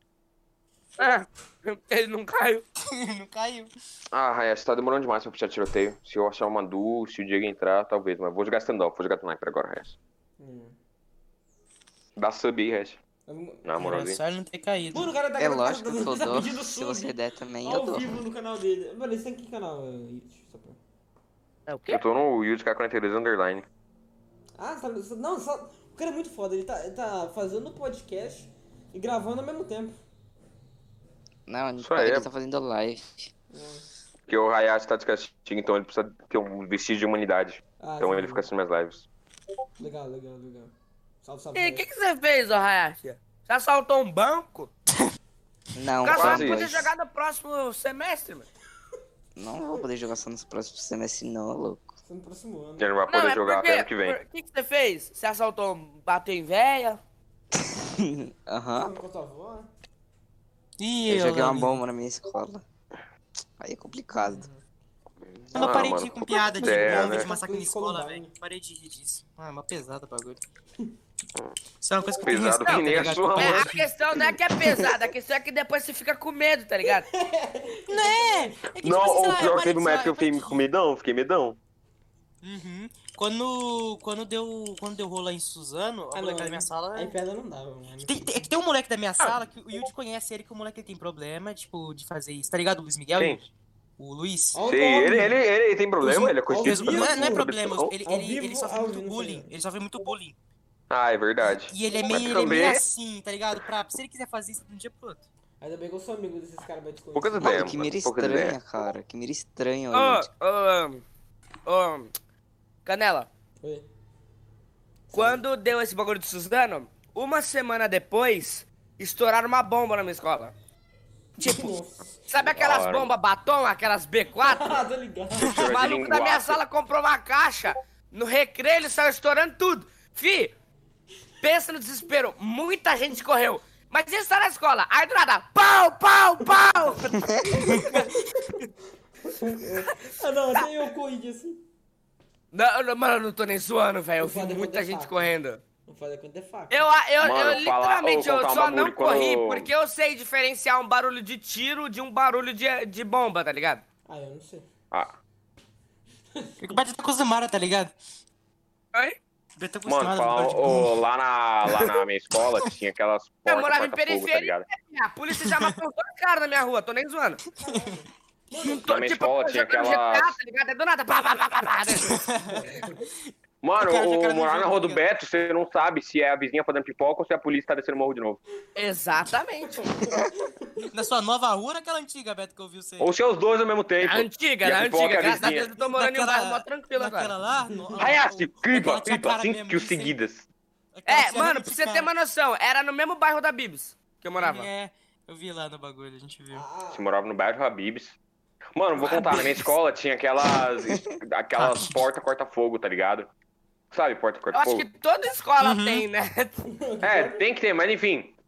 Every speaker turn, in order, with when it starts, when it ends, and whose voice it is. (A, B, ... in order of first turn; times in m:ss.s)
0:01.0-0:02.6 A
0:02.8-0:03.7 B
0:04.1-0:09.9 C
0:10.4-0:10.8 D
0:12.2-0:13.0 C
0:13.3-0:13.7 D
0:13.6-0:14.2 C
0:13.8-0:15.1 B
0:14.9-0:20.8 D
0:15.4-0:18.1 E
0:21.7-0:22.0 A
0:21.9-0:23.6 C
0:24.6-0:30.0 D
0:31.5-0:33.3 E
0:31.8-0:32.3 C
0:33.5-0:33.8 D
0:34.3-0:39.0 C
0:37.8-0:38.4 D
0:39.8-0:41.8 D
0:41.5-0:44.7 A
0:45.8-0:46.9 E
0:46.0-0:48.5 A
0:46.1-0:46.8 C
0:49.4-0:51.9 E
0:52.0-0:52.9 D
0:52.8-0:54.2 C
0:53.1-0:57.0 A
0:57.8-0:58.9 E
0:58.7-0:59.7 D
1:00.8-1:01.8 B
1:01.1-1:02.6 E
1:03.6-1:04.5 E
1:04.1-1:04.6 D
1:05.3-1:07.3 C
1:05.5-1:10.4 B
1:05.6-1:06.0 D
1:06.5-1:08.3 D
1:11.8-1:13.9 B
1:12.2-1:13.7 C
1:13.4-1:17.1 A
1:16.8-1:19.5 D
1:17.9-1:20.6 B
1:18.8-1:21.6 C
1:22.4-1:27.1 B
1:26.1-1:28.5 D
1:28.0-1:33.5 B
1:33.2-1:33.4 C
1:34.0-1:34.6 B
1:34.5-1:35.4 D
1:34.6-1:37.9 C
1:36.0-1:37.5 D
1:36.0-1:40.3 B
1:38.0-1:39.5 D
1:40.9-1:42.8 C
1:41.5-1:45.2 B
1:45.6-1:47.6 D
1:47.1-1:48.6 C
1:47.4-1:50.3 E
1:49.9-1:51.0 A
1:51.6-1:52.1 A
1:52.8-1:53.3 A
1:53.6-1:53.9 D
1:55.1-1:55.4 D
1:55.1-2:00.5 A
2:01.4-2:02.1 D
2:01.4-2:01.7 A
2:02.3-2:04.8 A
2:02.4-2:03.1 C
2:04.4-2:05.7 D
2:05.4-2:06.6 C
2:05.6-2:10.5 A
2:11.4-2:18.1 A
2:17.5-2:18.6 D
2:19.2-2:21.6 D
2:22.5-2:25.6 A
2:24.2-2:25.3 D
2:25.8-2:26.9 D
2:26.7-2:33.8 A
2:27.2-2:29.7 C
2:34.1-2:34.7 D
2:36.3-2:36.8 D
2:36.6-2:37.9 B
2:39.6-2:41.0 B
2:39.8-2:44.7 C
2:43.4-2:47.4 A
2:47.6-2:48.9 D
2:47.6-2:47.9 B
2:48.6-2:52.2 A
2:48.9-2:50.4 C
2:52.0-2:55.0 B
2:52.4-2:53.0 D
2:53.6-2:58.4 C
2:58.7-2:59.8 A
2:59.8-3:00.8 D
3:00.9-3:03.1 B
3:03.0-3:05.7 C
3:04.0-3:07.3 A
3:05.2-3:10.1 B
3:07.7-3:08.1 D
3:08.0-3:10.4 C
3:10.9-3:12.1 B
3:11.1-3:14.7 A
3:14.4-3:16.6 B
3:16.5-3:17.1 D
3:16.9-3:18.2 C
3:18.7-3:23.3 C
3:19.0-3:19.7 B
3:21.6-3:22.0 B
3:23.9-3:24.9 C
3:24.5-3:26.6 A
3:25.6-3:26.0 B
3:26.6-3:27.4 D
3:27.0-3:28.3 C